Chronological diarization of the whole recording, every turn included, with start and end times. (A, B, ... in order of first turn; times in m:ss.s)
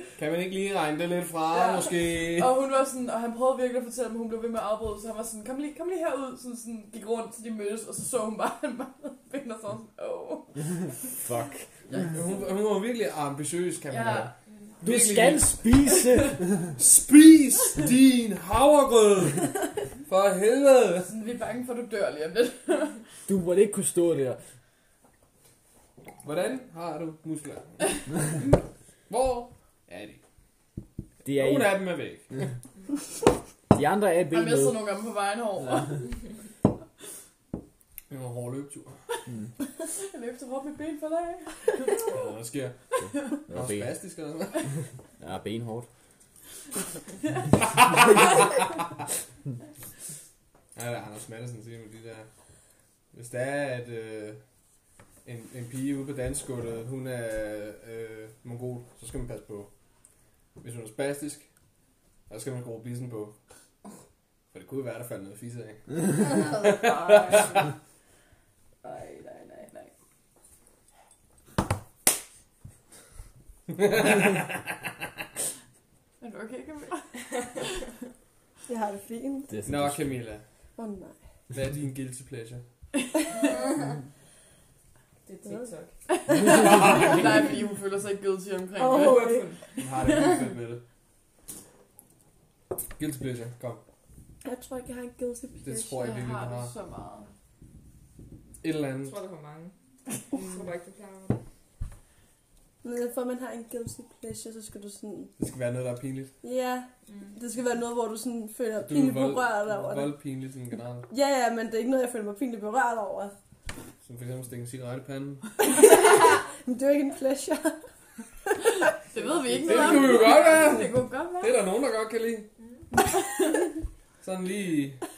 0:00.2-0:02.6 A
0:01.5-0:10.9 B
0:11.2-0:11.7 C
0:11.9-0:12.3 B
0:12.1-0:15.9 A
0:13.9-0:14.4 B
0:14.8-0:16.6 C
0:16.8-0:21.1 A
0:21.0-0:23.0 B
0:23.3-0:24.4 C
0:26.2-0:28.3 A
0:29.1-0:30.2 A
0:31.2-0:31.8 C
0:31.3-0:32.5 A
0:33.7-0:34.8 C
0:34.3-0:36.2 B
0:38.1-0:39.0 A
0:39.9-0:42.2 B
0:42.1-0:44.7 A
0:43.5-0:44.0 C
0:45.2-0:45.9 C
0:47.8-0:48.5 A
0:50.8-0:52.3 A
0:53.1-0:54.4 A
0:55.2-0:59.7 A
1:00.6-1:01.5 A
1:02.3-1:03.4 A
1:04.5-1:07.5 A
1:06.7-1:07.5 D
1:08.8-1:09.9 B
1:13.8-1:14.4 A
1:16.2-1:17.8 B
1:18.7-1:19.6 E
1:19.5-1:20.1 C
1:19.7-1:20.4 A
1:20.8-1:21.2 E
1:21.5-1:22.6 A
1:23.2-1:23.6 B
1:25.3-1:25.9 D
1:25.4-1:25.7 E
1:26.1-1:29.3 B
1:26.5-1:27.2 A
1:28.8-1:29.6 E
1:29.0-1:29.6 D
1:29.8-1:30.8 A
1:33.0-1:33.8 A
1:34.4-1:36.2 E
1:35.6-1:36.7 A
1:36.0-1:37.3 B
1:38.6-1:39.2 A
1:39.0-1:39.7 D
1:40.3-1:41.4 D
1:42.8-1:45.3 E
1:45.4-1:46.3 A
1:46.4-1:50.2 E
1:47.1-1:47.4 D
1:48.8-1:51.1 A
1:51.1-1:53.3 E
1:54.0-1:55.5 A
1:55.7-1:57.8 E
1:58.8-2:01.6 B
1:59.5-1:59.8 E
1:59.6-2:02.5 A
2:03.2-2:03.6 B
2:04.2-2:05.0 A